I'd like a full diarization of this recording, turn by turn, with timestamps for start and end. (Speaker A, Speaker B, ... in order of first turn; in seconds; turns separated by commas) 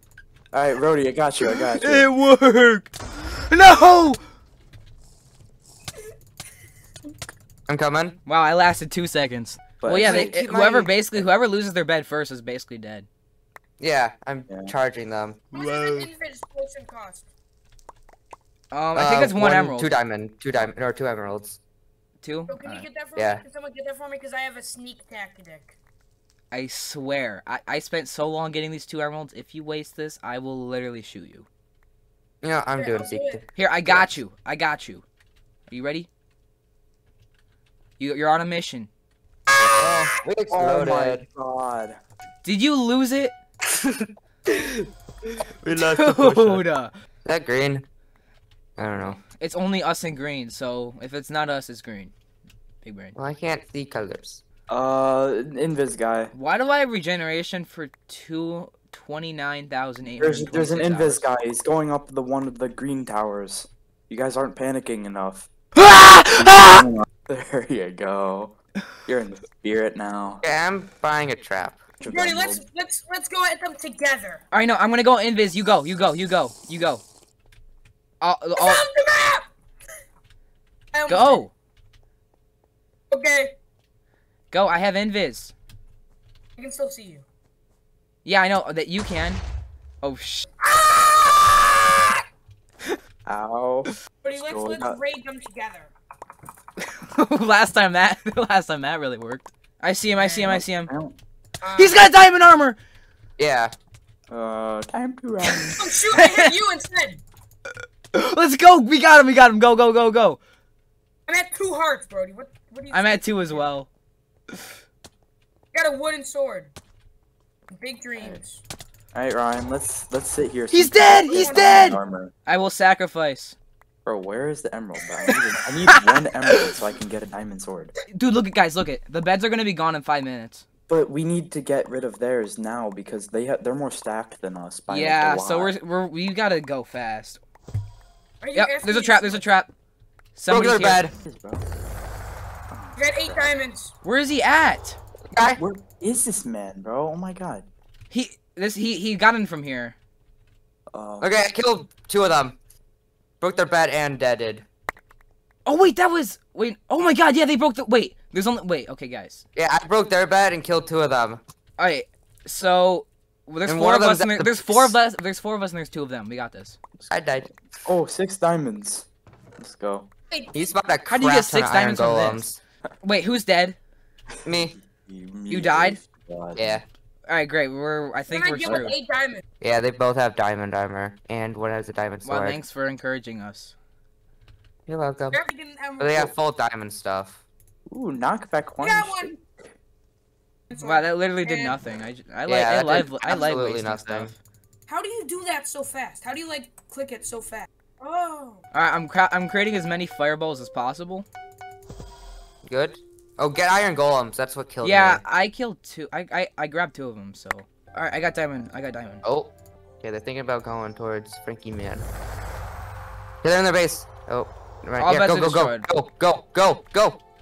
Speaker A: 0.5-2.1, Speaker B: 1.7-4.2, Speaker C: 7.7-8.2, Speaker B: 8.2-13.1, Speaker A: 9.8-10.4, Speaker C: 10.0-10.9, Speaker C: 13.8-15.4, Speaker A: 14.5-14.7, Speaker D: 15.5-17.3, Speaker B: 15.5-16.1, Speaker B: 18.7-19.9, Speaker C: 18.9-21.6, Speaker B: 22.2-22.6, Speaker D: 22.5-25.7, Speaker C: 22.6-23.4, Speaker B: 26.5-31.5, Speaker C: 32.4-34.1, Speaker D: 32.8-33.4, Speaker B: 33.5-35.0, Speaker B: 35.7-36.1, Speaker B: 38.0-38.9, Speaker C: 39.8-41.2, Speaker A: 40.5-42.0, Speaker B: 42.4-43.3, Speaker C: 43.8-44.7, Speaker C: 45.6-46.6, Speaker B: 45.7-46.9, Speaker C: 47.2-47.9, Speaker C: 48.8-49.2, Speaker B: 49.3-52.1, Speaker B: 52.8-53.1, Speaker C: 53.1-54.4, Speaker A: 54.7-56.3, Speaker B: 56.3-61.3, Speaker A: 60.2-65.5, Speaker B: 65.8-66.8, Speaker A: 66.3-70.4, Speaker C: 70.4-71.8, Speaker A: 72.0-72.6, Speaker D: 72.1-74.4, Speaker B: 74.5-77.0, Speaker B: 78.2-78.8, Speaker D: 78.6-79.5, Speaker D: 80.9-81.4, Speaker B: 81.1-81.5, Speaker D: 83.1-83.5, Speaker B: 84.5-85.5, Speaker D: 86.6-87.2, Speaker B: 88.2-89.4, Speaker B: 90.0-90.4, Speaker D: 90.6-92.2, Speaker A: 93.2-95.0, Speaker D: 94.2-95.9, Speaker B: 96.8-100.9, Speaker D: 100.2-100.5, Speaker A: 100.5-101.1, Speaker D: 101.6-102.0, Speaker B: 101.8-102.8, Speaker C: 103.4-103.7, Speaker A: 104.3-105.8, Speaker D: 105.8-107.2, Speaker B: 106.1-106.5, Speaker B: 108.1-110.4, Speaker D: 111.3-113.7, Speaker B: 112.9-113.9, Speaker D: 115.7-116.7, Speaker D: 117.8-118.6, Speaker A: 119.1-122.3, Speaker B: 120.7-123.5, Speaker D: 121.3-121.8, Speaker A: 124.0-127.9, Speaker B: 125.9-126.7, Speaker B: 128.1-130.6, Speaker A: 130.9-135.7, Speaker B: 134.9-137.4, Speaker D: 138.4-139.4, Speaker B: 138.5-139.7, Speaker B: 140.3-141.0, Speaker C: 140.5-141.1, Speaker A: 141.2-141.6, Speaker A: 142.7-143.5, Speaker D: 142.9-143.9, Speaker B: 144.0-145.0, Speaker C: 145.3-145.6, Speaker A: 145.5-147.7, Speaker B: 148.1-149.9, Speaker A: 150.9-151.4, Speaker C: 151.2-152.6, Speaker C: 153.4-154.6, Speaker B: 155.7-159.4, Speaker C: 159.5-161.4, Speaker B: 161.8-166.8, Speaker C: 163.6-164.9, Speaker C: 167.1-167.5, Speaker A: 167.8-169.1, Speaker A: 169.6-170.1, Speaker D: 170.3-170.7, Speaker C: 170.5-172.6, Speaker B: 171.1-172.5, Speaker B: 173.0-173.8, Speaker C: 174.4-174.8, Speaker A: 174.9-176.8, Speaker B: 175.5-176.0, Speaker C: 176.6-176.8, Speaker B: 177.3-178.9, Speaker D: 178.3-179.4, Speaker C: 179.6-182.6, Speaker B: 182.2-183.7, Speaker C: 184.9-185.4, Speaker D: 185.3-186.3, Speaker C: 186.0-187.4, Speaker A: 187.9-189.3, Speaker D: 188.8-189.4, Speaker D: 190.7-191.8, Speaker B: 190.7-194.4, Speaker C: 192.5-194.3, Speaker D: 194.9-198.6, Speaker B: 198.7-201.2, Speaker C: 202.6-205.2, Speaker B: 204.8-209.2, Speaker C: 209.2-212.0, Speaker C: 213.4-217.2, Speaker B: 215.0-215.8